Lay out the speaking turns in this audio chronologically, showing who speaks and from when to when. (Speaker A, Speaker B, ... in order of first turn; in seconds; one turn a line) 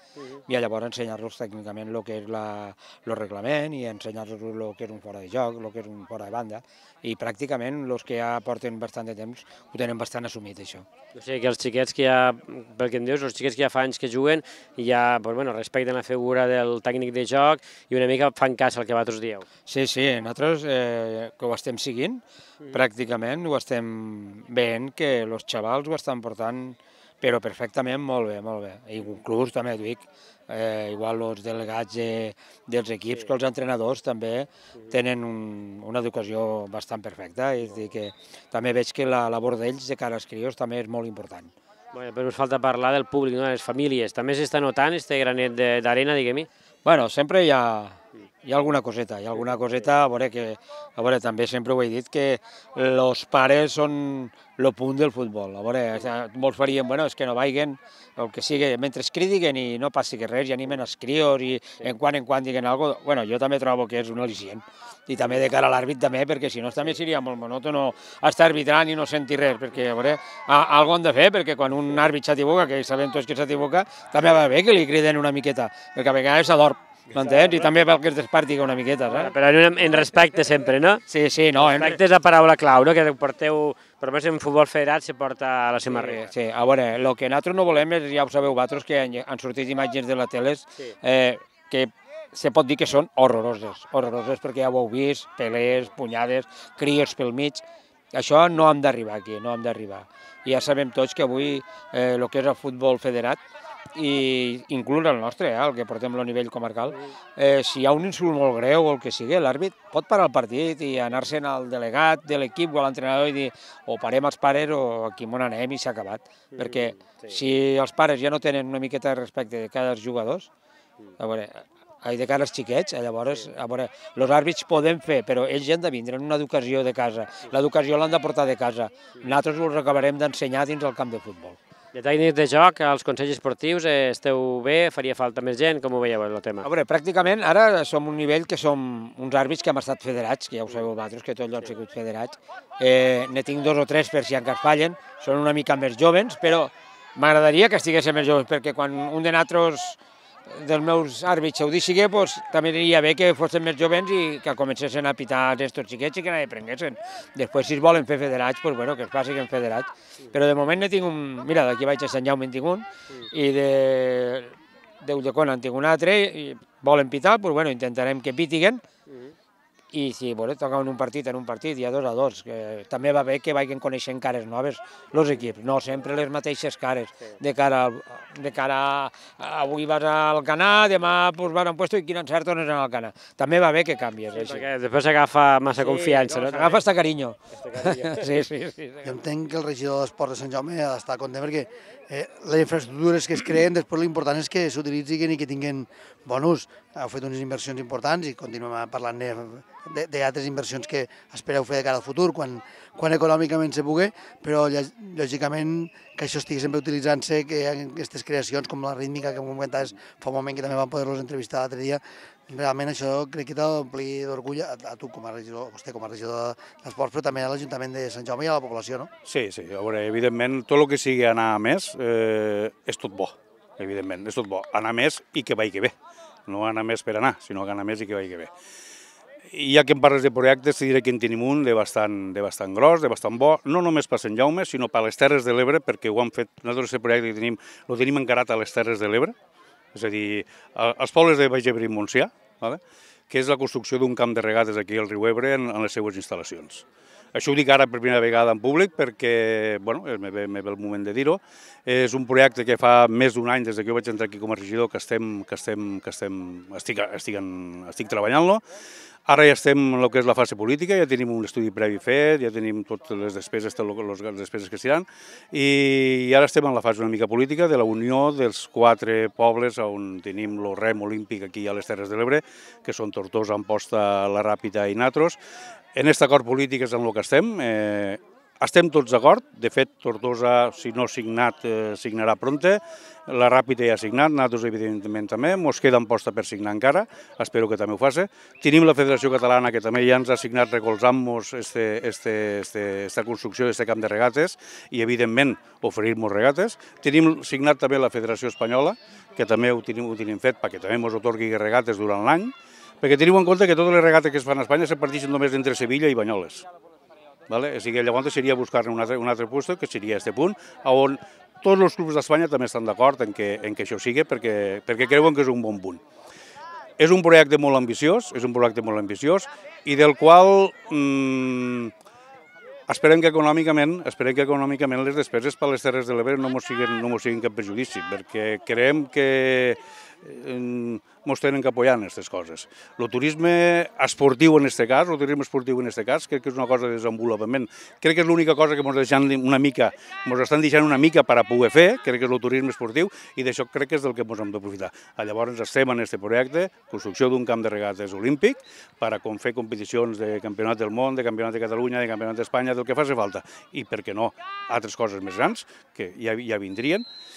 Speaker A: 0.5-10.8
Speaker B: 11.1-19.4
Speaker A: 19.7-41.5
Speaker B: 41.9-46.5
Speaker A: 46.8-79.3
Speaker B: 77.1-77.6
Speaker B: 79.1-81.0
Speaker A: 81.1-82.0
Speaker B: 81.5-86.3
Speaker A: 85.8-97.6
Speaker A: 98.1-103.4
Speaker A: 103.9-120.5
Speaker B: 116.5-117.4
Speaker A: 121.2-131.6
Speaker B: 131.9-136.7
Speaker A: 136.6-168.8
Speaker B: 169.1-169.3
Speaker A: 169.9-184.7
Speaker B: 184.3-186.8
Speaker A: 185.8-189.1
Speaker B: 187.6-188.4
Speaker C: 189.0-219.1
Speaker D: 219.2-225.9
Speaker D: 226.5-228.5
Speaker D: 229.5-239.3
Speaker D: 239.9-258.6
Speaker D: 259.2-275.4
Speaker D: 275.9-306.6
Speaker D: 307.5-316.0
Speaker D: 317.0-321.9
Speaker D: 322.9-357.1